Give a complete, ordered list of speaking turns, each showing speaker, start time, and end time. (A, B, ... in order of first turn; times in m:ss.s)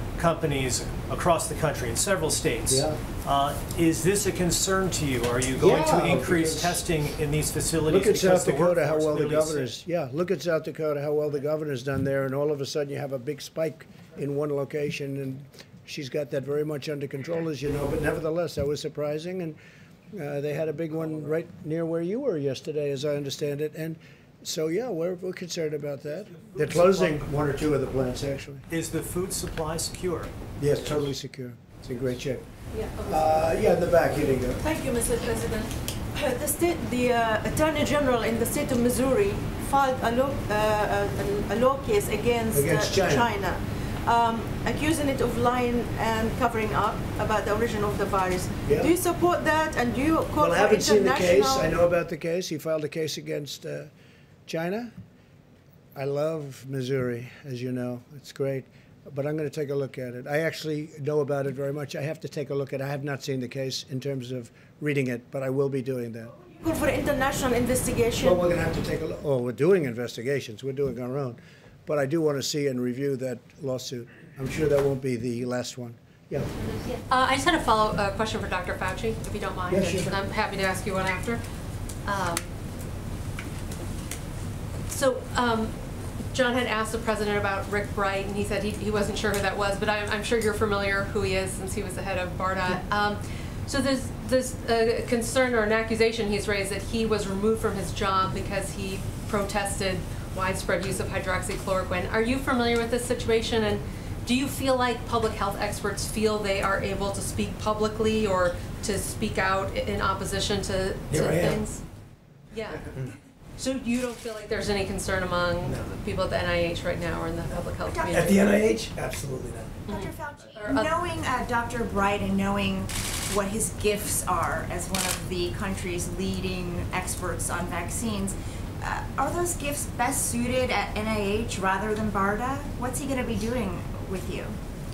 0:00.2-0:09.8 A
0:02.7-0:03.0 B
0:05.6-0:06.8 B
0:07.9-0:19.6 B
0:20.1-0:28.6 B
0:26.3-0:27.5 A
0:28.7-0:30.3 A
0:30.6-0:32.4 B
0:32.7-0:33.1 C
0:33.0-0:34.6 B
0:34.6-0:51.7 C
0:42.5-0:43.3 B
0:48.6-0:48.9 B
0:50.4-0:53.9 B
0:54.5-0:54.9 B
0:56.0-1:06.3 B
1:06.5-1:08.4 C
1:08.2-1:16.5 B
1:16.6-1:21.4 D
1:19.7-1:20.2 B
1:22.0-1:22.6 D
1:24.9-1:25.8 D
1:26.3-1:51.8 D
1:51.1-1:51.6 E
1:52.5-1:52.8 D
1:53.6-1:58.5 D
1:55.6-1:56.0 E
1:57.8-1:58.5 F
1:58.1-1:59.8 E
1:59.9-2:01.0 D
1:59.9-2:14.6 F